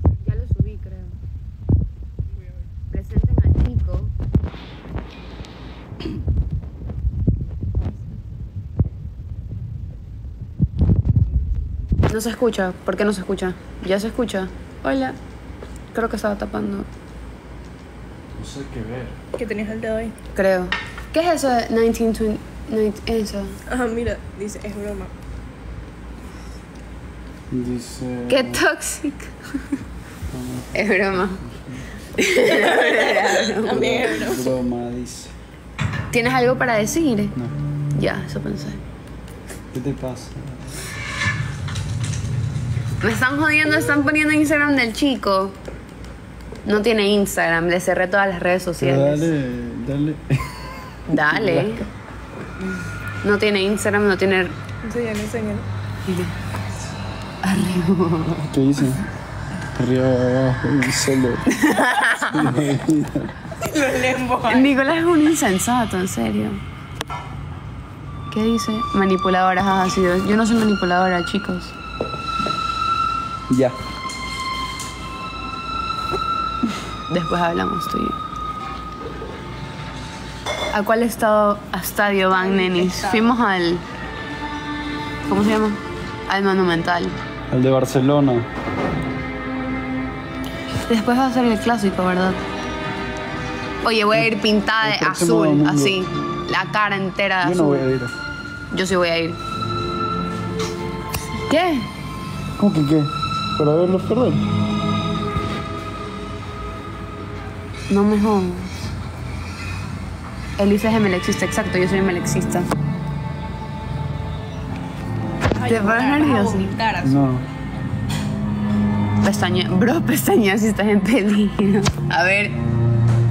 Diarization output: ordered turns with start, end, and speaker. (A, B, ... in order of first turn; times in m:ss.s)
0:00.2-0:01.2 A
0:02.9-0:04.1 A
0:12.1-0:15.2 A
0:15.9-0:16.9 A
0:18.3-0:19.2 B
0:19.4-0:20.1 C
0:20.3-0:23.6 A
0:23.7-0:25.1 C
0:27.5-0:28.6 B
0:28.3-0:29.6 A
0:30.3-0:30.8 B
0:30.7-0:31.4 A
0:31.5-0:31.8 B
0:32.0-0:34.1 A
0:32.6-0:34.5 C
0:33.6-0:35.3 B
0:36.1-0:37.3 A
0:37.9-0:38.8 A
0:39.7-0:40.8 B
0:43.0-0:45.6 A
0:46.6-0:49.3 A
0:48.8-0:51.8 B
0:51.1-0:51.8 A
0:53.2-0:54.5 A
0:54.8-0:55.7 C
0:56.0-0:56.3 A
0:57.4-0:58.5 A
0:58.5-0:59.0 B
0:59.7-1:01.6 B
1:01.5-1:02.5 A
1:02.2-1:03.3 B
1:03.6-1:04.7 C
1:04.4-1:06.6 A
1:08.3-1:11.7 A
1:13.5-1:13.8 B
1:17.1-1:18.2 A
1:20.7-1:23.8 A
1:22.2-1:23.4 C
1:25.3-1:27.2 A
1:27.5-1:28.5 B
1:30.8-1:32.4 A
1:33.8-1:37.9 A
1:34.8-1:36.0 B
1:37.4-1:38.1 B
1:38.7-1:39.4 A
1:41.4-1:41.9 A
1:42.6-1:44.4 B
1:47.9-1:48.7 A
1:50.6-1:52.7 A
1:55.5-1:57.3 C
1:55.6-1:56.7 A
1:57.0-1:57.4 B
1:59.2-2:02.5 A